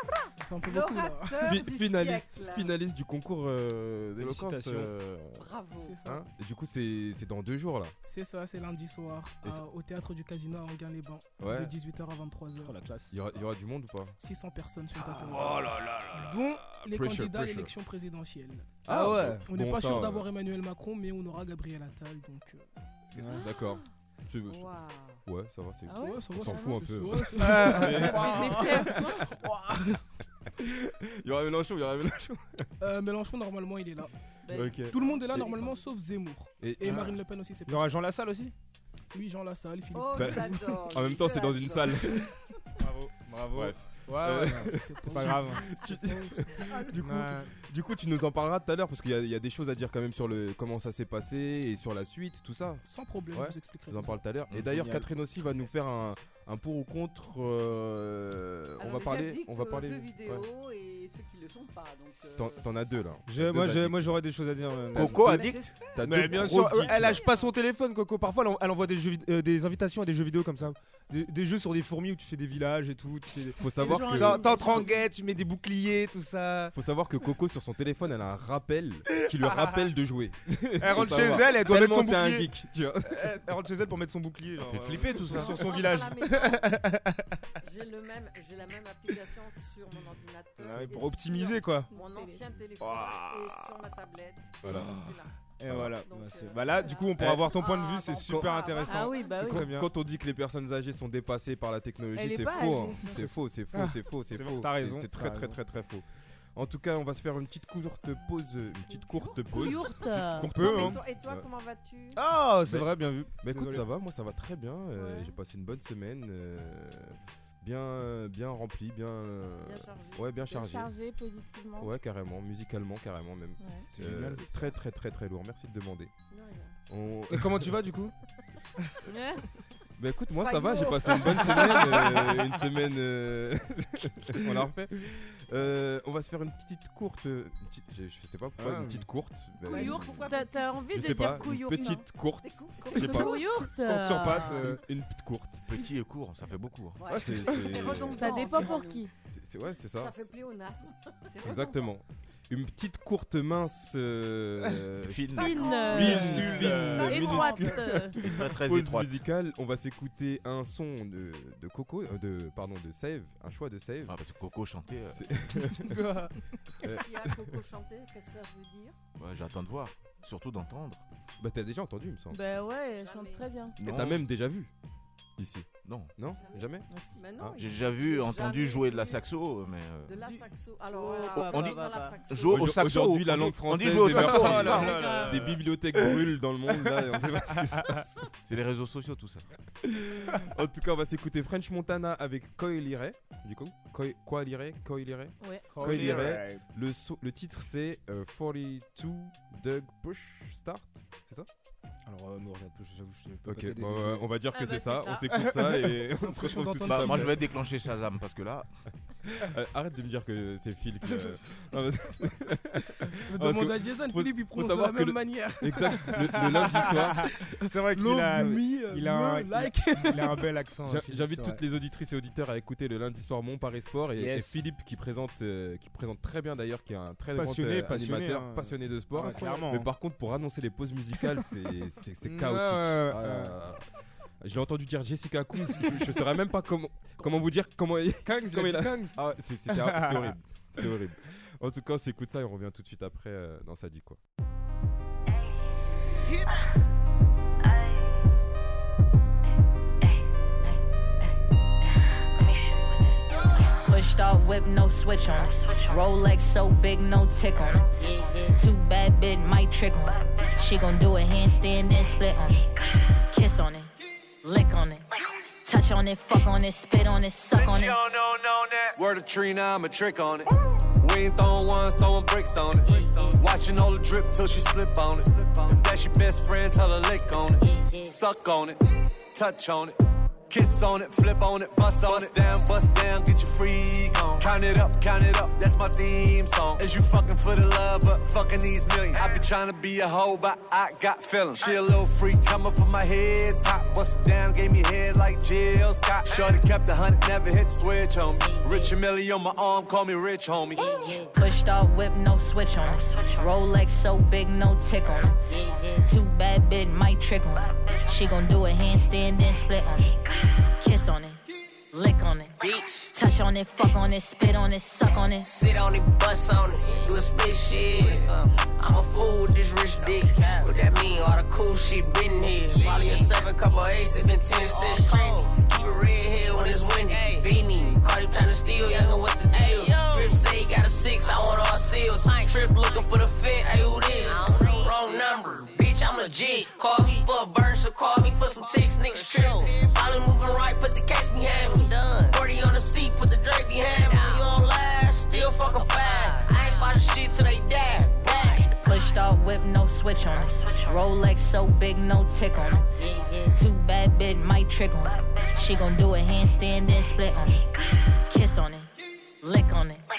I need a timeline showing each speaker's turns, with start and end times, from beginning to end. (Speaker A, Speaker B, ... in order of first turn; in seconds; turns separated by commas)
Speaker A: 0.3-1.5, Speaker B: 0.6-2.7, Speaker C: 1.4-5.5, Speaker D: 4.2-4.9, Speaker B: 5.4-6.0, Speaker A: 5.8-6.2, Speaker C: 6.0-7.9, Speaker A: 8.1-12.8, Speaker C: 11.4-11.7, Speaker D: 12.6-13.1, Speaker C: 13.1-14.2, Speaker A: 14.2-22.6, Speaker D: 15.1-16.3, Speaker C: 16.7-17.7, Speaker C: 18.8-20.3, Speaker D: 18.9-19.5, Speaker C: 23.1-29.3, Speaker D: 23.2-23.4, Speaker B: 24.4-25.2, Speaker E: 25.9-27.0, Speaker A: 26.0-29.9, Speaker D: 27.4-28.1, Speaker E: 27.7-29.2, Speaker C: 30.5-32.7, Speaker A: 32.8-34.1, Speaker E: 34.4-35.5, Speaker C: 34.5-35.5, Speaker A: 34.9-38.0, Speaker C: 36.6-37.2, Speaker D: 37.7-38.5, Speaker A: 39.1-40.6, Speaker B: 39.9-42.3, Speaker C: 40.1-42.3, Speaker D: 42.8-45.6, Speaker C: 43.5-60.5, Speaker A: 44.7-46.7, Speaker D: 46.9-47.5, Speaker A: 52.8-54.2, Speaker F: 54.5-54.9, Speaker D: 54.7-55.1, Speaker B: 58.8-62.6, Speaker C: 62.4-64.2, Speaker D: 63.3-65.4, Speaker F: 64.9-65.7, Speaker C: 65.0-67.2, Speaker B: 65.1-67.5, Speaker D: 66.0-76.7, Speaker C: 73.6-74.9, Speaker E: 73.8-74.9, Speaker C: 76.7-83.4, Speaker D: 79.1-79.7, Speaker D: 80.8-87.4, Speaker F: 84.6-85.7, Speaker B: 85.2-86.8, Speaker G: 85.7-86.2, Speaker G: 87.6-95.3, Speaker D: 90.6-91.9, Speaker E: 91.9-92.4, Speaker D: 92.8-93.7, Speaker C: 94.6-95.0, Speaker D: 94.7-99.9, Speaker C: 95.7-96.0, Speaker G: 95.9-97.1, Speaker B: 96.9-99.3, Speaker C: 97.2-97.5, Speaker C: 98.2-98.6, Speaker E: 98.9-99.7, Speaker C: 99.3-111.5, Speaker E: 102.1-103.3, Speaker D: 103.1-105.6, Speaker G: 109.2-109.7, Speaker E: 109.5-110.5, Speaker G: 110.5-112.2, Speaker D: 110.5-111.0, Speaker D: 112.1-113.8, Speaker C: 112.6-120.9, Speaker E: 115.0-115.3, Speaker G: 119.6-120.4, Speaker E: 120.5-121.9, Speaker C: 121.8-126.1, Speaker E: 123.6-123.8, Speaker D: 123.9-124.5, Speaker G: 126.3-126.8, Speaker C: 126.9-127.8, Speaker D: 127.3-128.1, Speaker E: 129.1-129.4, Speaker C: 130.0-140.3, Speaker G: 130.4-132.4, Speaker B: 130.7-131.1, Speaker D: 131.8-132.3, Speaker D: 138.6-139.1, Speaker B: 139.6-140.8, Speaker E: 139.7-142.1, Speaker G: 139.8-140.3, Speaker C: 140.9-143.5, Speaker B: 142.6-143.6, Speaker G: 142.8-143.4, Speaker E: 142.9-144.6, Speaker D: 143.8-144.8, Speaker C: 144.6-145.7, Speaker F: 145.7-147.5, Speaker B: 147.0-149.1, Speaker C: 147.1-148.4, Speaker E: 147.9-149.1, Speaker G: 148.2-148.8, Speaker C: 149.2-150.2, Speaker G: 149.9-151.6, Speaker B: 151.3-151.9, Speaker C: 151.4-164.2, Speaker F: 155.0-155.8, Speaker E: 155.3-158.2, Speaker B: 155.4-157.7, Speaker G: 155.6-156.1, Speaker D: 155.9-157.2, Speaker F: 158.2-159.2, Speaker F: 164.1-165.5, Speaker C: 165.0-166.1, Speaker D: 165.7-166.5, Speaker C: 166.8-167.5, Speaker G: 166.8-168.9, Speaker F: 169.2-171.0, Speaker C: 171.4-172.4, Speaker E: 172.3-173.8, Speaker G: 173.0-173.5, Speaker F: 173.8-174.2, Speaker C: 173.8-174.7, Speaker C: 175.4-177.6, Speaker F: 175.8-176.1, Speaker E: 176.9-177.2, Speaker G: 177.1-179.2, Speaker F: 177.6-180.2, Speaker G: 180.0-182.7, Speaker B: 180.9-182.1, Speaker F: 181.3-185.1, Speaker C: 182.5-188.3, Speaker D: 184.0-186.1, Speaker E: 184.6-185.6, Speaker D: 186.7-186.9, Speaker D: 187.6-188.0, Speaker F: 188.4-189.5, Speaker C: 189.8-201.5, Speaker E: 195.4-195.9, Speaker D: 195.7-196.6, Speaker D: 202.1-204.3, Speaker C: 203.4-207.4, Speaker E: 204.5-205.3, Speaker D: 205.4-207.3, Speaker F: 206.8-208.7, Speaker C: 209.3-217.4, Speaker A: 213.3-216.9, Speaker D: 216.1-221.6, Speaker A: 217.8-220.5, Speaker C: 220.8-233.8, Speaker D: 224.1-224.6, Speaker D: 227.3-229.9, Speaker D: 232.2-233.5, Speaker C: 234.4-244.2, Speaker D: 238.2-240.3, Speaker H: 253.7-262.6, Speaker H: 263.3-263.9, Speaker H: 264.4-265.1, Speaker H: 265.6-268.0, Speaker I: 267.5-270.5, Speaker I: 271.0-278.8, Speaker H: 272.9-273.4, Speaker H: 277.6-278.1, Speaker I: 279.3-279.9, Speaker I: 280.5-301.2, Speaker H: 298.4-298.9, Speaker H: 300.8-310.2, Speaker H: 310.8-311.4, Speaker H: 311.9-312.6, Speaker J: 312.6-313.1, Speaker H: 313.1-315.5, Speaker J: 315.4-348.7, Speaker H: 348.7-357.7, Speaker H: 358.3-358.9, Speaker H: 359.4-360.0